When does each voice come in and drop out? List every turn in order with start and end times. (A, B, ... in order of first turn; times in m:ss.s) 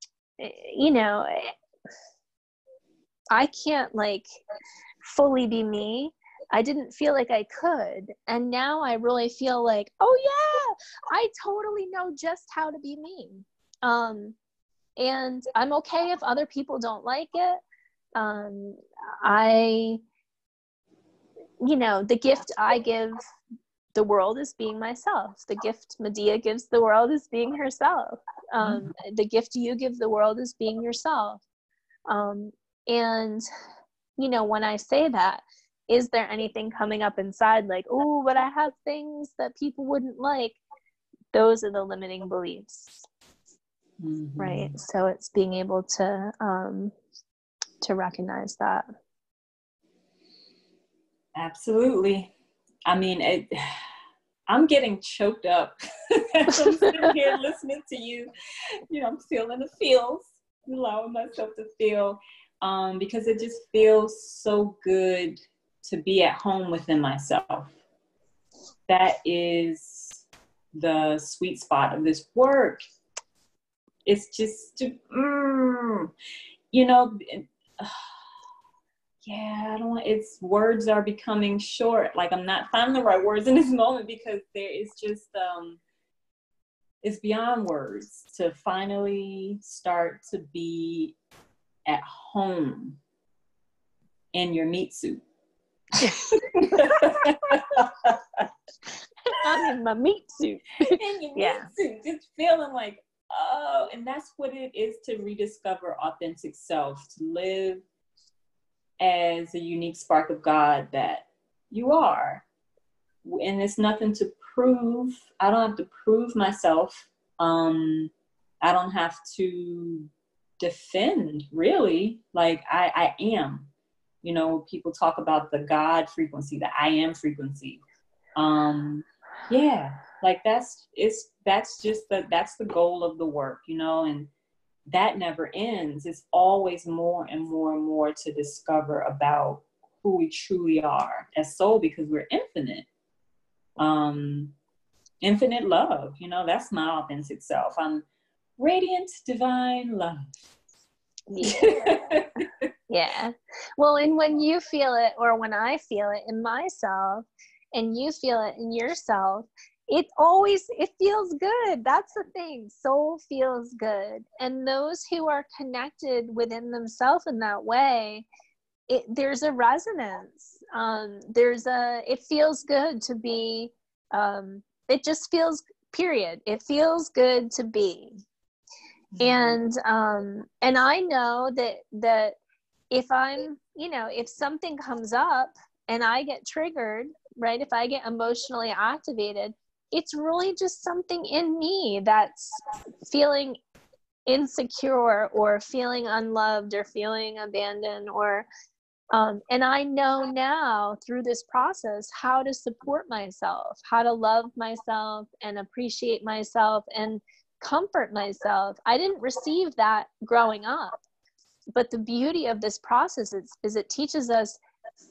0:00.4-0:01.5 A
0:03.3-0:04.2 A
0:05.0-0:14.4 A
0:15.0-0:17.6 A
0:18.2-0:20.0 A
0:21.6-0:23.2 A
0:23.9-0:31.4 A
0:28.6-0:28.9 B
0:32.1-0:33.4 A
0:34.2-0:40.6 A
0:41.3-0:43.0 A
0:44.0-0:44.8 B
0:44.4-0:46.9 A
0:47.8-0:48.8 A
0:51.4-0:52.3 B
0:52.9-0:53.5 B
0:54.5-0:58.3 B
0:58.9-1:07.7 B
1:08.9-1:12.8 B
1:14.0-1:16.1 B
1:16.7-1:18.1 B
1:19.2-1:25.8 B
1:27.0-1:31.2 B
1:31.9-1:33.0 B
1:34.3-1:35.2 B
1:35.9-1:38.5 B
1:36.0-1:37.3 A
1:39.3-1:41.7 A
1:40.8-1:47.8 B
1:49.0-1:52.4 B
1:53.2-2:03.7 B
2:04.2-2:07.8 B
2:08.4-2:14.3 B
2:14.9-2:22.9 B
2:23.8-2:24.5 B
2:25.2-2:28.0 B
2:28.6-2:30.4 B
2:31.3-2:32.2 A
2:31.4-2:32.5 B
2:32.9-2:48.2 A
2:48.9-2:58.2 A
2:59.1-2:59.6 B
2:59.2-3:02.4 A
3:02.9-3:13.6 A
3:14.2-3:18.5 A
3:19.1-3:31.0 A
3:31.7-3:34.6 A